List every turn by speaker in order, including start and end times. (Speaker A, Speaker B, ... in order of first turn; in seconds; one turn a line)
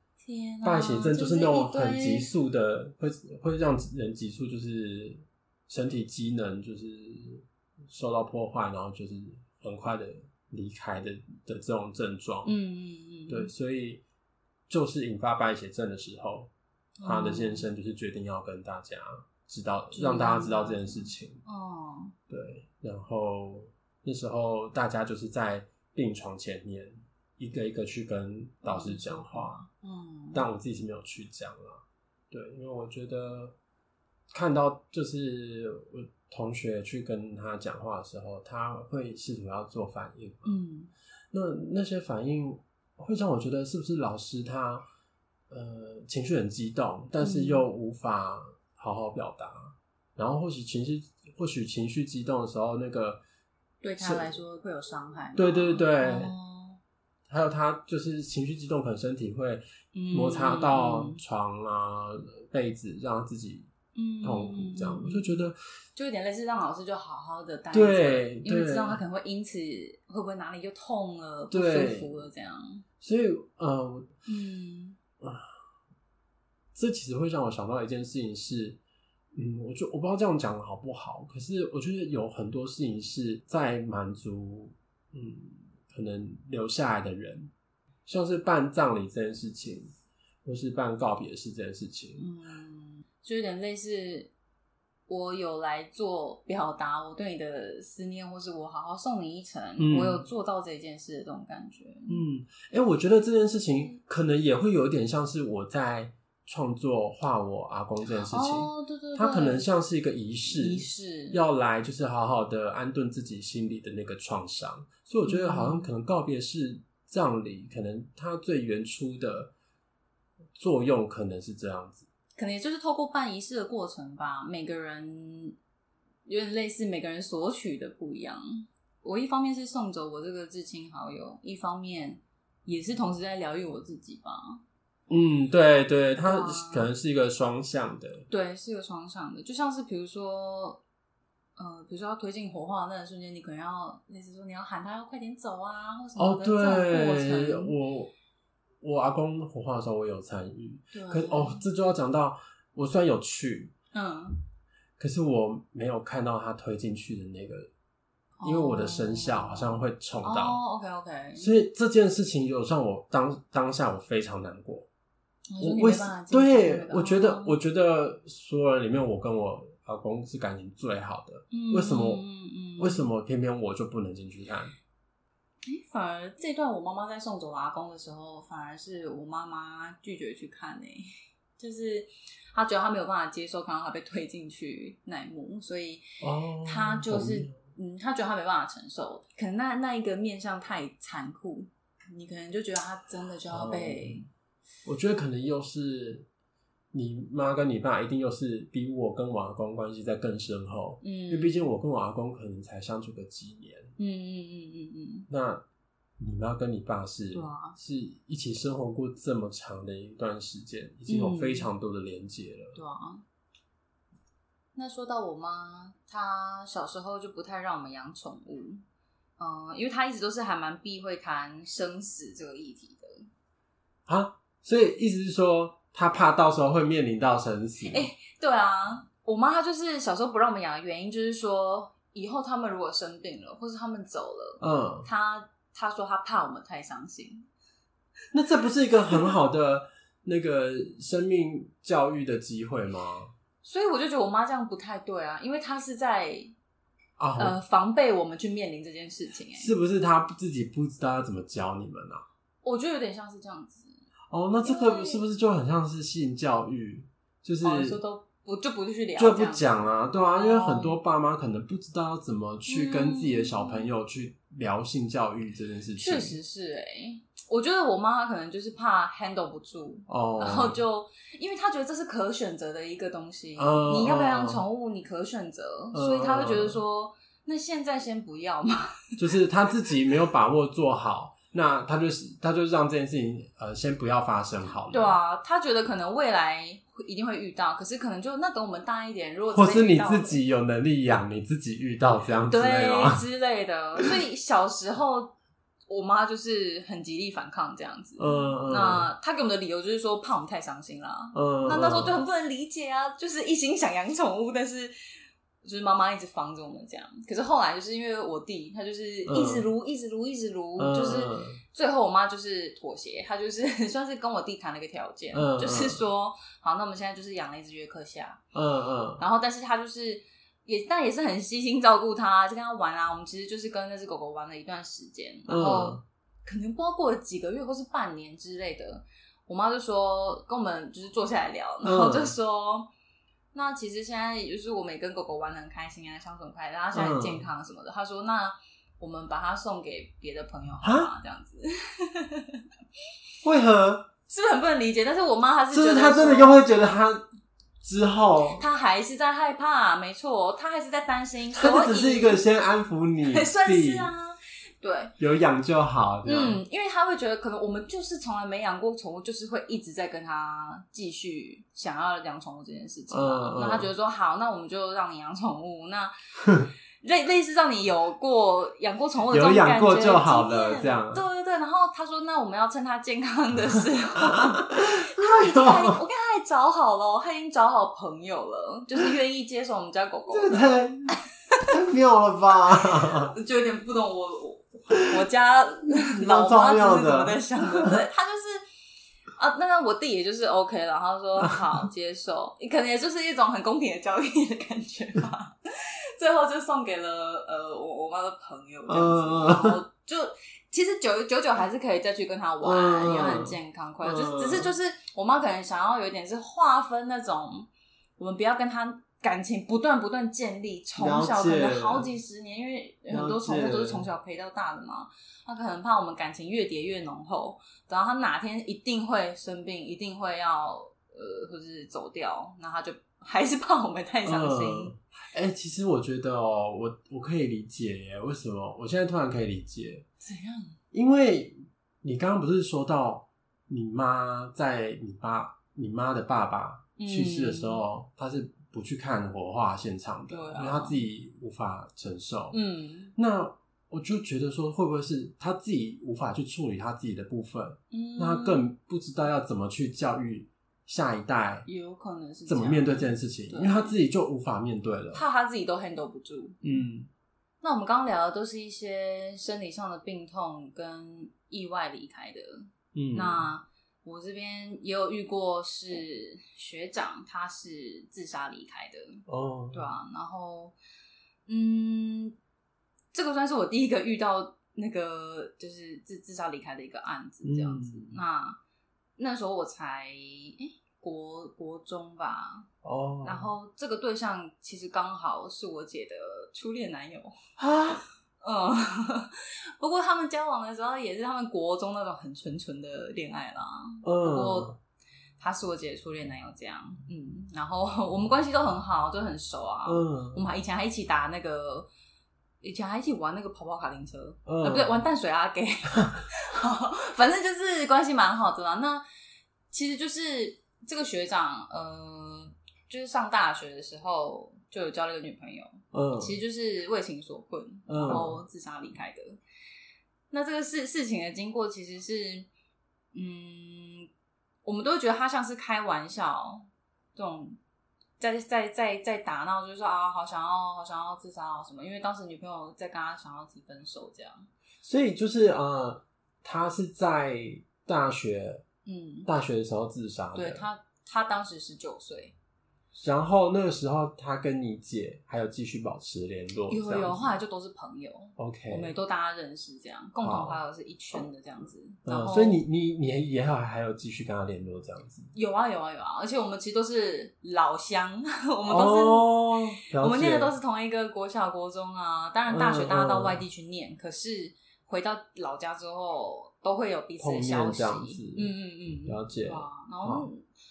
Speaker A: 0.2-2.3
Speaker B: 0.6-12.6
Speaker A: 12.4-13.5
Speaker B: 13.3-14.0
Speaker B: 14.7-16.5
Speaker A: 17.0-17.6
Speaker B: 17.0-21.4
Speaker A: 19.9-22.1
Speaker B: 22.3-29.6
Speaker A: 28.6-30.4
Speaker B: 30.3-33.5
Speaker B: 34.3-40.6
Speaker A: 40.4-40.9
Speaker B: 41.3-44.8
Speaker B: 45.5-53.2
Speaker A: 47.2-47.6
Speaker A: 53.8-56.8
Speaker B: 54.0-54.4
Speaker B: 55.3-56.3
Speaker B: 57.3-63.7
Speaker A: 59.9-61.2
Speaker A: 63.9-65.2
Speaker B: 64.2-65.5
Speaker A: 65.9-72.8
Speaker B: 67.7-69.0
Speaker B: 71.5-72.1
Speaker B: 73.0-74.1
Speaker A: 74.3-75.0
Speaker B: 75.2-75.5
Speaker B: 76.7-78.8
Speaker B: 79.3-87.5
Speaker B: 88.0-89.9
Speaker B: 90.4-92.3
Speaker A: 92.2-94.3
Speaker A: 95.1-102.2
Speaker B: 99.8-100.2
Speaker B: 102.1-119.5
Speaker A: 108.3-109.7
Speaker A: 110.5-111.4
Speaker A: 115.2-115.9
Speaker B: 120.6-122.1
Speaker A: 122.3-125.5
Speaker A: 126.2-134.6
Speaker B: 135.1-138.3
Speaker A: 136.2-136.9
Speaker A: 138.3-140.8
Speaker A: 141.6-147.7
Speaker B: 146.2-148.1
Speaker B: 148.8-153.7
Speaker A: 150.9-151.7
Speaker A: 153.9-154.4
Speaker B: 155.0-157.7
Speaker A: 158.4-161.5
Speaker B: 158.4-160.6
Speaker B: 161.3-164.9
Speaker A: 165.5-167.5
Speaker B: 165.6-172.2
Speaker A: 171.5-173.1
Speaker B: 172.8-174.7
Speaker A: 175.7-181.1
Speaker A: 181.6-186.0
Speaker B: 186.2-187.6
Speaker A: 186.6-194.3
Speaker B: 193.5-194.2
Speaker B: 194.8-196.3
Speaker B: 196.9-203.9
Speaker A: 201.0-201.7
Speaker A: 204.0-205.3
Speaker B: 205.3-205.6
Speaker B: 206.2-212.8
Speaker A: 207.3-207.8
Speaker A: 211.1-211.7
Speaker A: 212.7-213.2
Speaker A: 214.7-218.8
Speaker A: 219.4-223.3
Speaker B: 224.1-228.1
Speaker A: 227.9-237.4
Speaker B: 234.6-235.1
Speaker B: 238.3-243.3
Speaker A: 243.6-246.5
Speaker B: 247.2-247.6
Speaker A: 247.4-249.7
Speaker B: 249.6-252.2
Speaker A: 252.6-253.9
Speaker B: 254.3-258.0
Speaker A: 254.6-255.2
Speaker A: 257.6-259.6
Speaker B: 259.2-266.4
Speaker A: 260.3-261.0
Speaker A: 262.7-263.9
Speaker A: 266.0-279.2
Speaker B: 270.1-270.8
Speaker B: 273.6-274.6
Speaker B: 275.9-276.8
Speaker B: 279.2-285.2
Speaker A: 284.8-290.4
Speaker B: 289.5-293.2
Speaker A: 292.5-295.3
Speaker A: 295.9-304.9
Speaker B: 298.2-299.1
Speaker B: 301.3-302.2
Speaker A: 305.6-318.4
Speaker B: 309.2-309.7
Speaker B: 310.8-311.6
Speaker B: 315.3-316.0
Speaker B: 318.5-319.2
Speaker A: 319.2-332.9
Speaker B: 325.5-326.0
Speaker B: 331.8-332.3
Speaker A: 333.5-342.6
Speaker B: 336.9-337.4
Speaker B: 340.8-341.1
Speaker B: 343.4-344.1
Speaker A: 344.3-346.6
Speaker B: 345.7-347.3
Speaker B: 347.8-348.6
Speaker A: 348.5-352.4
Speaker B: 351.5-354.1
Speaker A: 353.2-355.1
Speaker B: 355.2-356.6
Speaker A: 356.2-366.1
Speaker B: 363.1-363.9
Speaker A: 367.0-380.8
Speaker B: 369.3-371.2
Speaker B: 374.2-376.0
Speaker B: 380.3-383.3
Speaker A: 383.2-388.6
Speaker B: 385.9-388.0
Speaker A: 389.4-424.9
Speaker B: 391.4-391.8
Speaker B: 398.9-399.8
Speaker B: 402.6-404.7
Speaker B: 411.0-412.1
Speaker B: 413.1-414.1
Speaker B: 424.2-430.1
Speaker A: 430.2-430.8
Speaker B: 430.9-442.6
Speaker A: 437.0-437.8
Speaker A: 440.3-441.0
Speaker A: 442.5-443.1
Speaker B: 443.1-451.7
Speaker A: 447.9-448.6
Speaker A: 451.6-453.9
Speaker B: 452.5-455.2
Speaker A: 455.1-456.8
Speaker B: 456.6-457.1
Speaker A: 457.6-469.2
Speaker B: 462.9-463.5
Speaker B: 469.3-469.9
Speaker A: 469.7-470.7
Speaker A: 471.5-472.4
Speaker A: 473.1-478.6
Speaker B: 477.4-478.2
Speaker A: 479.2-482.7
Speaker B: 482.8-483.5
Speaker A: 483.2-487.3
Speaker B: 487.6-488.1
Speaker A: 488.4-494.7
Speaker B: 494.0-494.8
Speaker A: 495.4-501.9
Speaker B: 499.9-500.4
Speaker A: 502.6-509.0
Speaker B: 504.4-505.0
Speaker A: 509.7-519.4
Speaker B: 515.9-516.4
Speaker B: 517.9-518.4
Speaker A: 520.3-522.5
Speaker A: 523.1-524.1
Speaker A: 524.6-527.6
Speaker A: 528.2-534.5
Speaker B: 534.8-538.6
Speaker A: 538.8-539.3
Speaker B: 539.2-540.6
Speaker A: 540.3-542.3
Speaker B: 542.9-547.4
Speaker A: 546.7-552.6
Speaker B: 548.4-548.9
Speaker B: 550.2-550.6
Speaker B: 552.0-555.3
Speaker A: 555.3-570.4
Speaker B: 558.7-560.5
Speaker B: 562.5-563.4
Speaker B: 567.2-570.3